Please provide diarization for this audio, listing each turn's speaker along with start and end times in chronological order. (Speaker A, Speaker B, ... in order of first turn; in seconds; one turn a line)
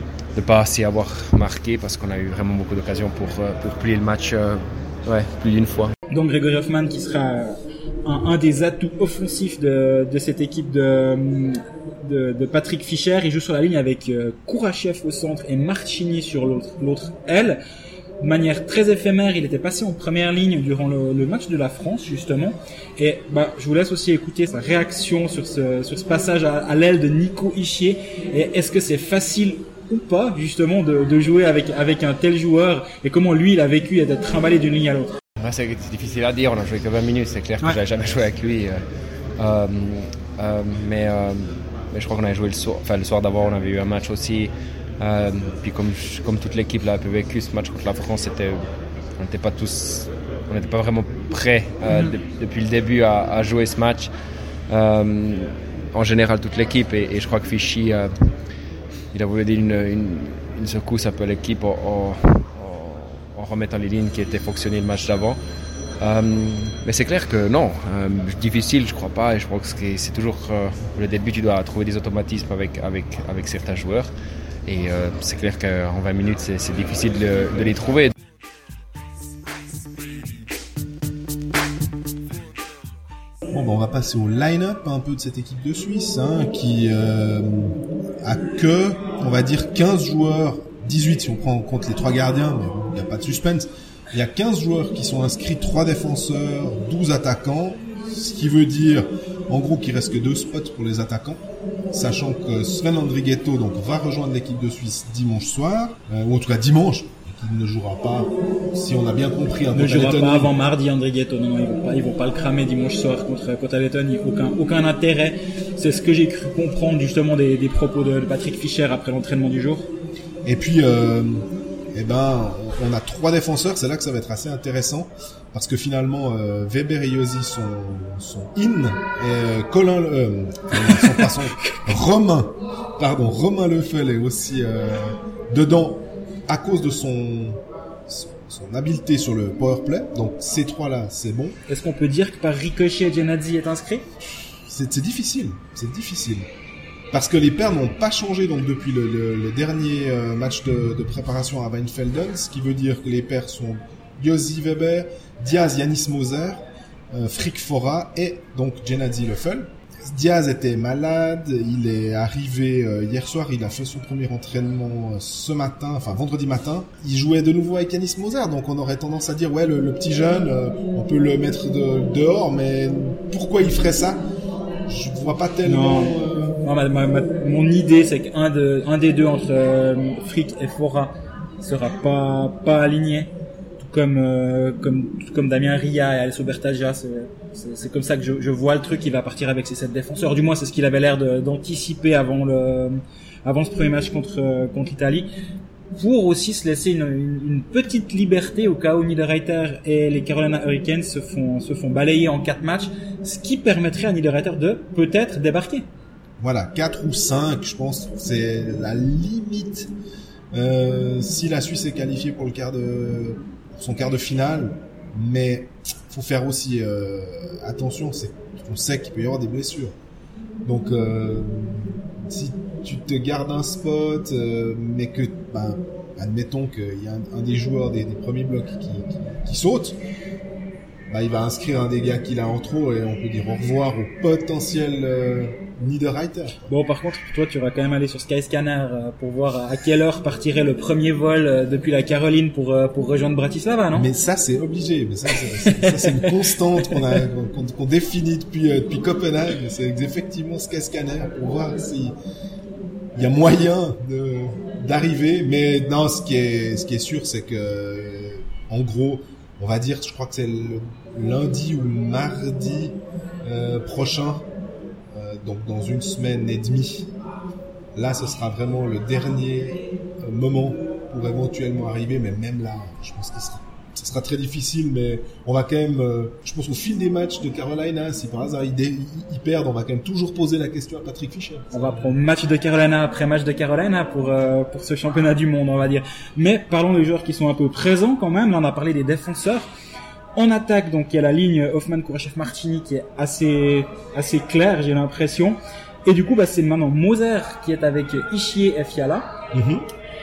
Speaker A: 0.3-5.9
Speaker B: 6.1-17.6
Speaker B: 18.2-35.1
Speaker A: 35.4-38.8
Speaker A: 39.4-48.6
Speaker A: 49.2-54.1
Speaker A: 54.7-58.1
Speaker A: 59.1-65.4
Speaker A: 66.0-74.1
Speaker A: 74.7-78.1
Speaker C: 83.5-110.5
Speaker B: 109.7-119.9
Speaker C: 120.4-141.6
Speaker B: 130.9-131.8
Speaker B: 141.7-144.1
Speaker C: 144.7-146.5
Speaker C: 147.1-174.2
Speaker C: 174.9-176.6
Speaker B: 175.6-195.3
Speaker B: 195.9-205.9
Speaker C: 206.4-209.9
Speaker C: 210.5-219.9
Speaker C: 220.6-230.0
Speaker C: 231.1-236.6
Speaker B: 236.6-244.1
Speaker C: 243.9-252.2
Speaker B: 245.4-246.3
Speaker B: 246.9-247.2
Speaker C: 253.1-264.5
Speaker C: 265.1-267.1
Speaker C: 267.9-282.1
Speaker B: 281.7-289.7
Speaker B: 290.3-299.3
Speaker C: 299.5-299.9